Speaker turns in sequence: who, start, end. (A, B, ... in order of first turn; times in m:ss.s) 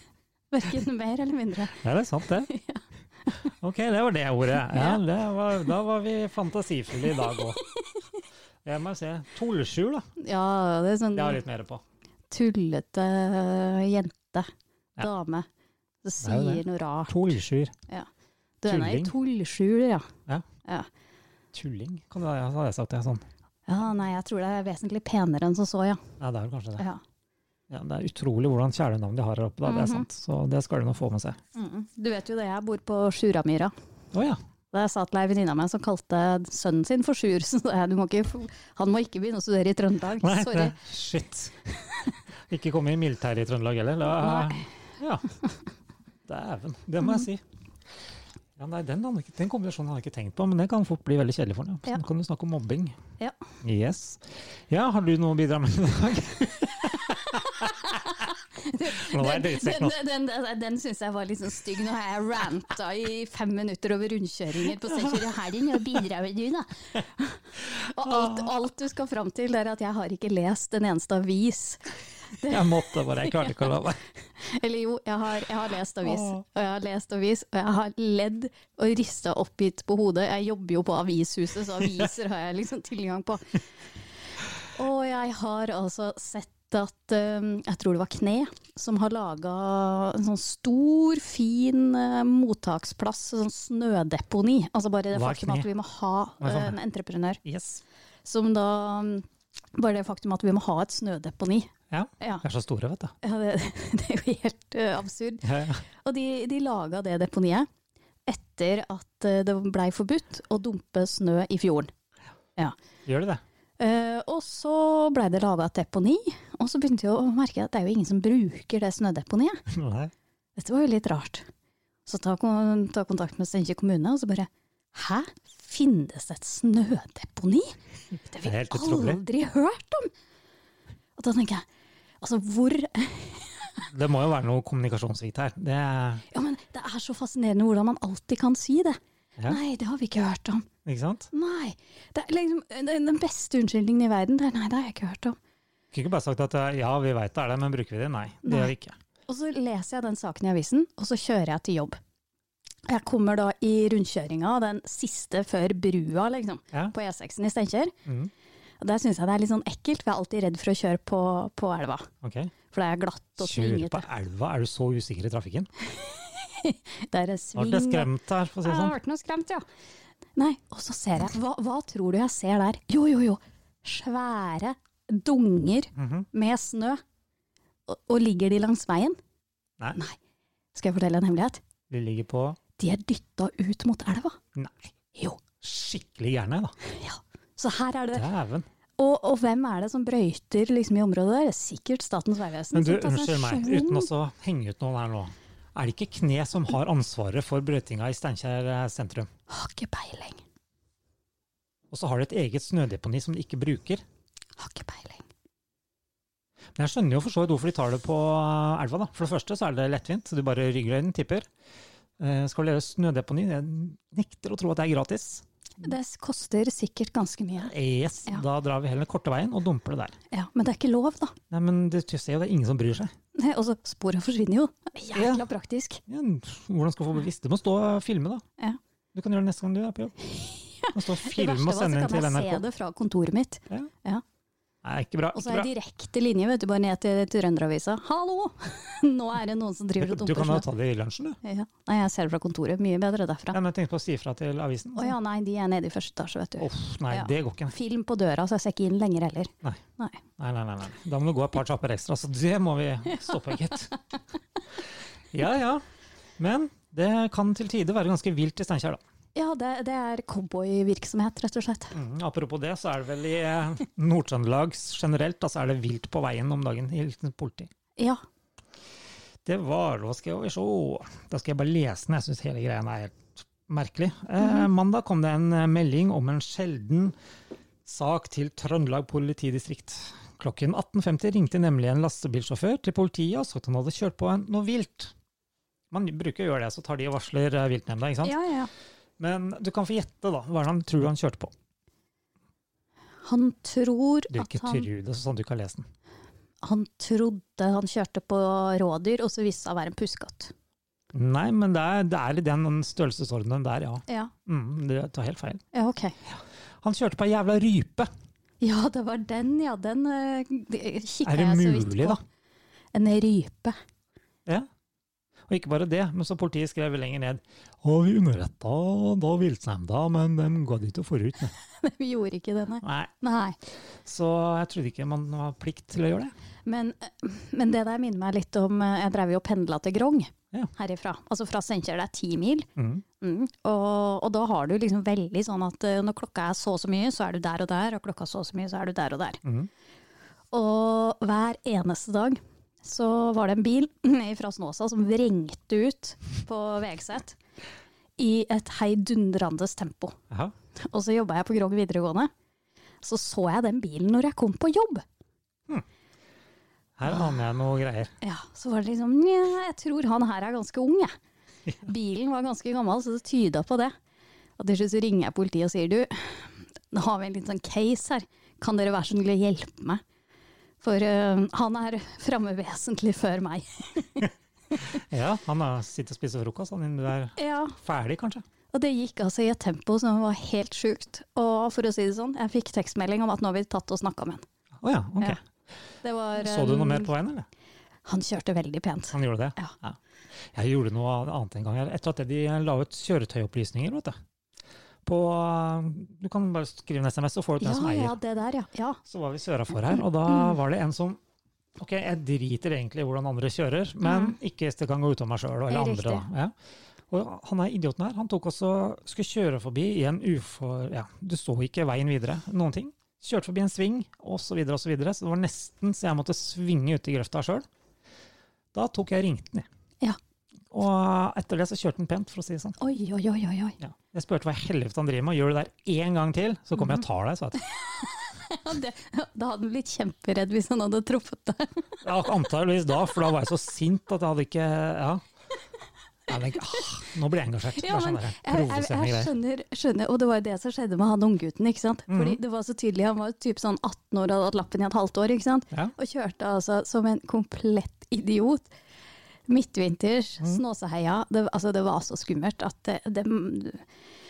0:00.5-0:01.8 A
0:01.8-0:02.5 B
0:02.5-0:03.5 A
0:03.4-0:07.6 B
0:04.7-0:05.0 A
0:07.1-0:08.0 A
0:08.6-0:10.1 B
0:10.2-0:11.4 A
0:11.1-0:11.8 B
0:12.3-0:15.5 A
0:16.0-0:17.4 A
0:16.2-0:17.7 B
0:18.6-0:20.1 A
0:18.6-0:19.1 B
0:21.5-0:23.2 B
0:23.7-0:26.0 A
0:26.2-0:26.8 B
0:27.7-0:31.4 B
0:29.6-0:30.0 A
0:31.5-0:33.7 A
0:34.1-0:34.4 B
0:34.7-0:40.8 A
0:40.2-0:41.7 B
0:42.5-0:45.2 B
0:44.1-0:44.6 A
0:46.2-0:47.4 B
0:48.6-0:53.0 B
0:53.6-0:57.8 B
0:56.9-1:13.6 A
0:58.9-1:00.0 B
1:04.8-1:05.1 B
1:08.0-1:08.5 B
1:12.4-1:14.0 B
1:14.4-1:23.6 A
1:16.0-1:16.4 B
1:24.6-1:37.4 A
1:35.1-1:35.7 B
1:36.4-1:36.8 B
1:37.4-1:37.8 B
1:38.2-1:42.4 A
1:41.9-1:43.1 B
1:43.2-1:47.7 A
1:45.4-1:45.8 B
1:48.3-1:51.9 A
1:53.0-1:53.4 B
1:53.8-1:59.6 A
1:59.7-2:00.1 B
2:00.6-2:01.5 A
2:02.0-2:10.1 A
2:08.4-2:09.2 B
2:11.2-2:11.6 A
2:12.2-2:13.8 A
2:13.9-2:16.2 B
2:16.3-2:20.7 A
2:20.8-2:21.3 B
2:21.3-2:25.4 A
2:25.9-2:29.0 B
2:28.4-2:28.7 A
2:29.3-2:32.0 A
2:32.9-2:37.9 A
2:38.0-2:38.3 B
2:38.8-2:42.1 A
2:42.2-2:42.5 B
2:42.7-2:44.0 A
2:43.4-2:45.7 B
2:45.8-2:48.1 A
2:47.5-2:48.9 B
2:48.6-2:49.6 A
2:50.4-2:57.0 A
2:56.0-2:56.3 B
2:57.9-2:59.2 A
3:00.7-3:01.6 A
3:01.9-3:02.6 B
3:02.8-3:04.4 A
3:04.5-3:06.7 B
3:05.2-3:05.4 A
3:06.8-3:08.2 A
3:08.1-3:08.7 B
3:09.0-3:14.1 A
3:12.7-3:19.3 B
3:19.5-3:20.4 A
3:21.9-3:24.0 B
3:24.6-3:25.2 A
3:26.8-3:31.5 B
3:32.2-3:35.4 B
3:35.8-3:37.7 A
3:37.6-3:40.2 B
3:40.3-3:41.4 A
3:41.5-3:43.1 B
3:43.3-3:46.0 A
3:45.1-3:45.4 B
3:46.1-3:48.4 B
3:49.1-3:50.1 B
3:50.3-3:54.2 A
3:50.9-3:52.6 B
3:54.8-3:55.7 B
3:55.3-4:00.6 A
4:00.0-4:01.4 B
4:01.4-4:03.6 A
4:03.5-4:05.2 B
4:04.9-4:10.2 A
4:06.6-4:07.7 B
4:10.4-4:13.9 B
4:15.3-4:15.8 B
4:16.4-4:19.0 B
4:19.3-4:21.9 A
4:21.9-4:27.7 B
4:28.0-4:28.2 A
4:29.4-4:37.1 B
4:34.4-4:34.7 A
4:37.8-4:45.1 B
4:45.9-4:48.4 B
4:48.2-4:48.7 A
4:49.2-4:51.5 B
4:53.2-4:54.9 A
4:54.3-4:55.8 B
4:56.6-5:00.5 A
5:01.1-5:05.6 B
5:04.1-5:04.3 A
5:05.7-5:06.2 A
5:06.2-5:08.1 B
5:08.6-5:12.2 A
5:11.2-5:12.2 B
5:12.9-5:13.8 A
5:15.5-5:21.5 B
5:21.6-5:23.6 A
5:22.8-5:23.1 B
5:24.0-5:26.3 B
5:26.6-5:32.7 A
5:32.8-5:33.0 B
5:33.2-5:39.4 A
5:39.4-5:39.7 B
5:40.5-5:47.4 A
5:48.2-5:50.2 A
5:50.8-5:52.3 A
5:53.0-5:55.0 A
5:57.0-5:58.1 B
5:58.2-6:01.1 A
6:01.8-6:03.9 A
6:04.6-6:10.0 A
6:10.8-6:14.3 A
6:14.8-6:18.4 B
6:17.4-6:17.8 A
6:18.7-6:24.4 A
6:24.8-6:25.4 B
6:26.0-6:27.1 A
6:26.4-6:27.4 B
6:28.0-6:29.7 A
6:29.1-6:30.0 B
6:30.5-6:34.2 B
6:35.0-6:38.2 B
6:37.6-6:39.0 A
6:39.0-6:41.2 B
6:39.9-6:40.5 A
6:41.8-6:46.5 B
6:44.0-6:44.4 A
6:45.7-6:46.3 A
6:47.1-6:57.6 B
6:58.7-6:59.6 B
7:00.7-7:02.8 B
7:02.8-7:03.8 A
7:03.8-7:07.6 B
7:07.6-7:12.0 A
7:12.0-7:15.2 B
7:16.3-7:19.3 B
7:17.7-7:28.7 A
7:22.1-7:22.4 B
7:29.5-7:33.8 A